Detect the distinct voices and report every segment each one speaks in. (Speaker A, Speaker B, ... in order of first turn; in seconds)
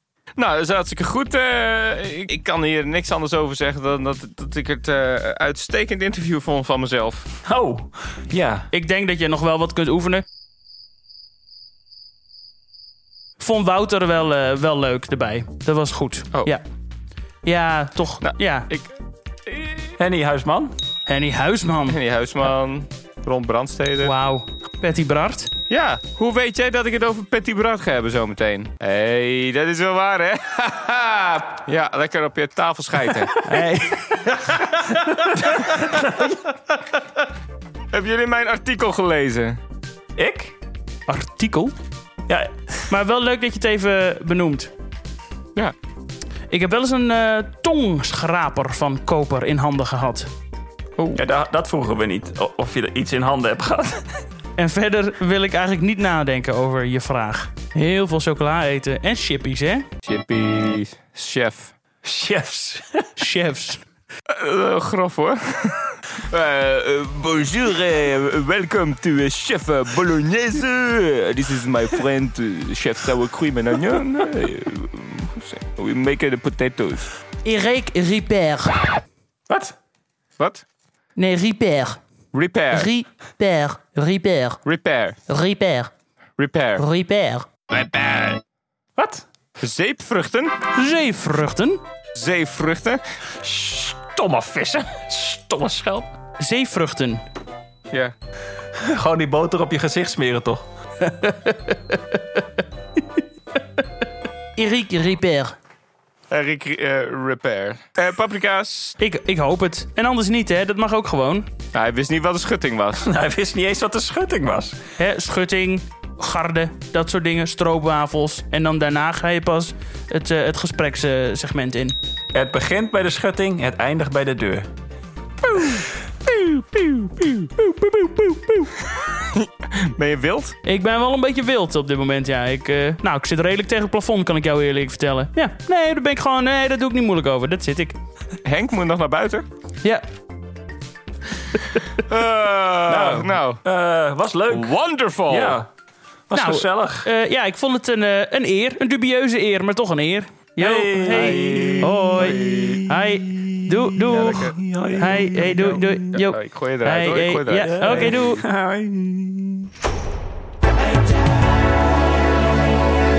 Speaker A: 0.4-7.3, 18.2-18.9, 19.5-19.9, 21.9-24.1, 25.7-33.4, 37.9-39.6, 60.0-61.7, 64.3-77.1, 80.4-80.7, 82.3-82.9, 84.7-85.2, 86.4-86.8, 87.7-88.4, 89.6-90.5, 92.2-93.0, 106.3-109.0, 111.7-113.1, 129.2-130.6, 138.4-139.5, 142.0-143.6, 144.5-145.6, 151.1-152.8, 154.1-154.6, 155.6-158.1
Speaker B: 7.5-8.7, 20.0-20.8, 35.8-36.4, 40.2-40.6, 42.3-42.5, 51.1-54.1, 62.0-63.1, 79.5-79.8, 89.0-89.2, 93.4-96.1, 98.8-100.7, 113.0-114.8, 122.3-124.7, 127.6-128.6, 142.9-144.8, 145.3-145.7, 146.3-147.1, 150.6-156.1, 157.6-159.7
Speaker C: 8.7-10.2, 13.4-16.6, 17.4-18.7, 21.1-22.0, 24.0-25.5, 33.4-36.2, 41.1-41.7, 42.9-44.7, 46.5-50.3, 54.6-59.9, 63.2-63.8, 77.5-78.8, 81.2-82.0, 82.7-84.6, 85.3-85.9, 86.8-87.5, 90.8-91.8, 96.4-97.2, 101.0-102.4, 104.6-105.5, 109.0-111.5, 115.0-122.0, 130.7-138.0, 146.3-158.4